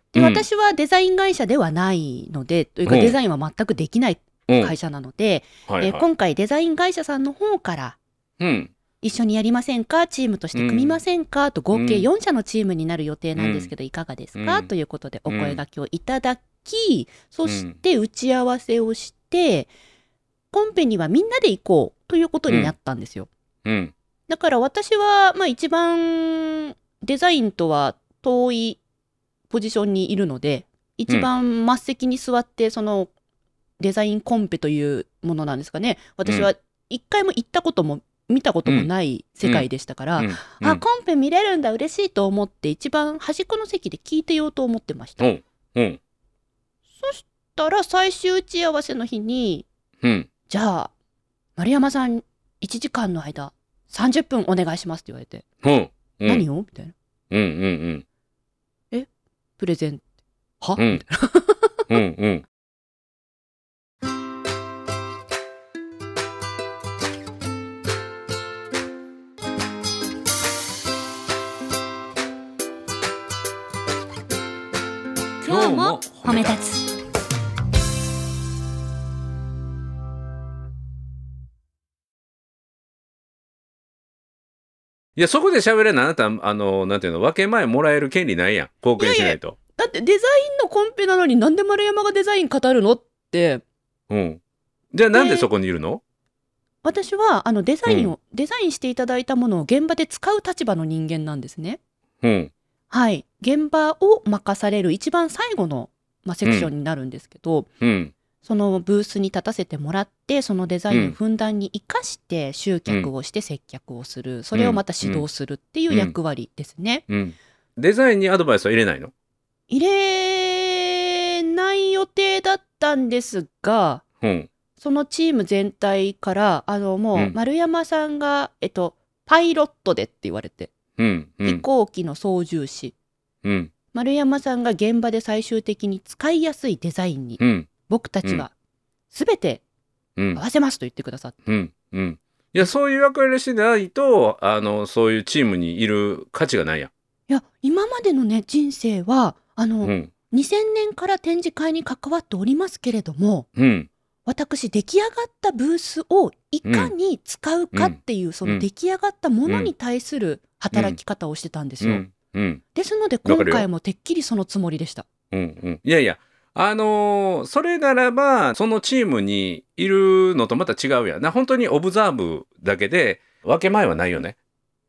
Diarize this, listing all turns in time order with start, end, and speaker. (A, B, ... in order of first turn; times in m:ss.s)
0:00.1-0:08.0 A
0:00.1-0:00.4 B
0:02.9-0:03.2 B
0:05.7-0:06.0 B
0:08.4-0:08.7 B
0:09.0-0:19.7 A
0:10.5-0:11.0 B
0:11.7-0:12.1 B
0:13.4-0:13.7 B
0:14.4-0:14.7 B
0:15.3-0:15.6 B
0:17.4-0:17.8 B
0:20.5-0:23.3 A
0:22.5-0:22.7 B
0:23.6-0:23.9 B
0:24.3-0:28.8 A
0:29.5-0:33.1 A
0:33.8-0:45.2 A
0:39.4-0:40.8 B
0:45.2-0:46.0 B
0:47.0-0:49.7 A
0:50.0-0:50.3 B
0:50.5-0:50.9 A
0:51.6-0:55.4 A
0:55.6-0:56.4 B
0:56.2-0:56.9 A
0:57.3-0:58.0 B
0:58.9-1:00.0 A
1:00.6-1:01.8 A
1:00.8-1:01.0 B
1:01.9-1:02.4 B
1:15.4-1:16.8 A
1:15.4-1:16.6 B
1:25.2-1:29.6 B
1:29.0-1:33.6 A
1:34.1-1:34.4 B
1:34.9-1:36.0 B
1:35.1-1:35.5 A
1:36.8-1:41.8 A
1:37.9-1:38.1 B
1:42.2-1:42.5 B
1:42.9-1:47.7 A
1:46.4-1:46.7 B
1:47.8-1:48.1 B
1:48.4-1:57.0 A
1:50.9-1:51.2 B
1:54.5-1:55.2 B
1:55.9-1:56.1 B
1:57.1-1:59.1 B
1:59.7-2:04.0 A
2:04.2-2:04.5 B
2:04.8-2:10.7 A
2:11.0-2:11.6 B
2:11.4-2:13.0 A
2:13.4-2:13.7 B
2:13.9-2:18.5 A
2:17.4-2:17.7 B
2:19.1-2:19.6 A
2:20.3-2:21.4 A
2:21.5-2:26.9 B
2:27.3-2:33.5 A
2:29.8-2:30.1 B
2:33.6-2:33.9 B
2:34.2-2:42.0 A
2:36.6-2:36.9 B
2:37.7-2:38.6 B
2:40.7-2:41.0 B
2:41.8-2:42.6 B
2:42.8-2:45.1 A
2:43.2-2:43.6 B
2:45.3-2:54.4 B